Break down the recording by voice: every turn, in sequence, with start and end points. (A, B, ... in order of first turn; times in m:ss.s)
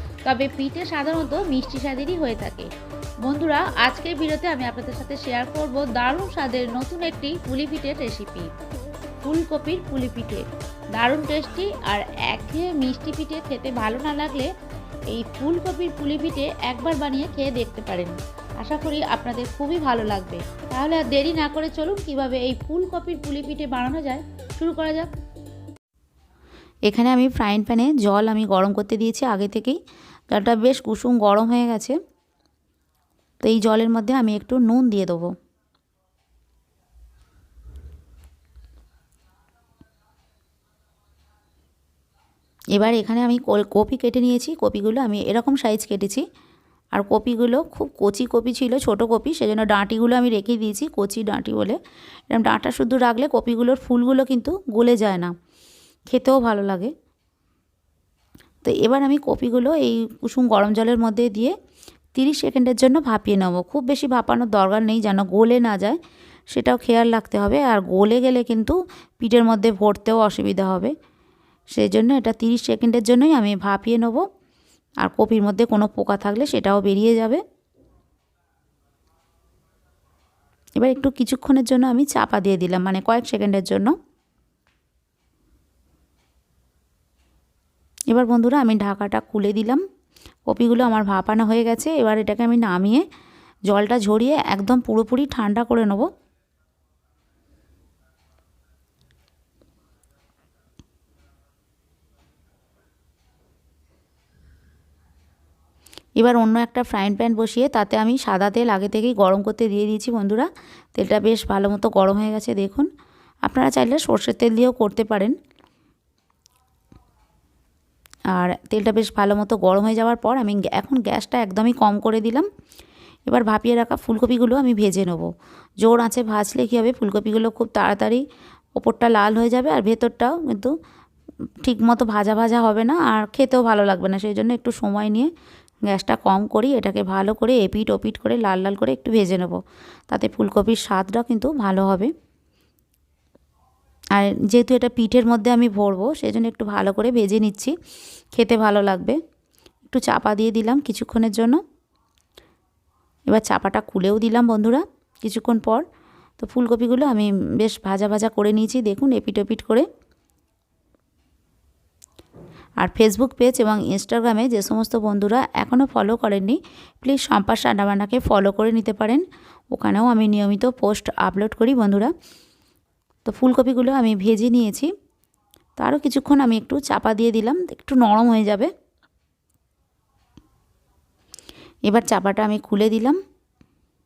0:00.3-0:02.7 A
0:01.8-0:02.2 B
0:03.2-0:08.5 A
0:03.8-0:04.1 B
0:05.4-0:06.5 B
0:07.1-0:07.8 B
0:09.2-0:10.4 A
0:09.7-0:10.0 B
0:11.0-0:14.5 A
0:11.2-0:12.5 B
0:13.6-0:14.5 B
0:15.1-0:18.1 A
0:16.7-0:17.8 B
0:18.6-0:23.0 A
0:18.7-0:25.1 B
0:23.8-0:24.2 A
0:24.7-0:25.0 A
0:26.9-0:29.8 B
0:30.3-0:32.0 B
0:33.4-0:35.3 B
0:42.7-0:46.2 B
0:46.9-0:51.8 B
0:52.3-0:55.3 B
0:56.1-0:56.9 B
0:58.6-1:01.5 B
1:02.1-1:06.0 B
1:06.5-1:10.9 B
1:11.7-1:14.2 B
1:15.0-1:17.4 B
1:20.8-1:23.9 B
1:28.1-1:29.8 B
1:30.5-1:33.0 B
1:33.7-1:36.1 B
1:46.2-1:52.9 B
1:53.4-1:55.3 B
1:58.3-2:02.5 B
2:03.3-2:05.3 B
2:05.8-2:08.2 B
2:08.8-2:10.7 B
2:11.6-2:15.3 B
2:15.9-2:19.6 B
2:20.1-2:22.1 B
2:24.1-2:27.7 B
2:28.3-2:29.2 B
2:29.9-2:31.6 B
2:33.3-2:35.8 B
2:36.4-2:39.8 B
2:42.8-2:52.1 B
2:53.2-2:54.9 B
2:55.8-2:58.7 B
3:01.9-3:03.2 B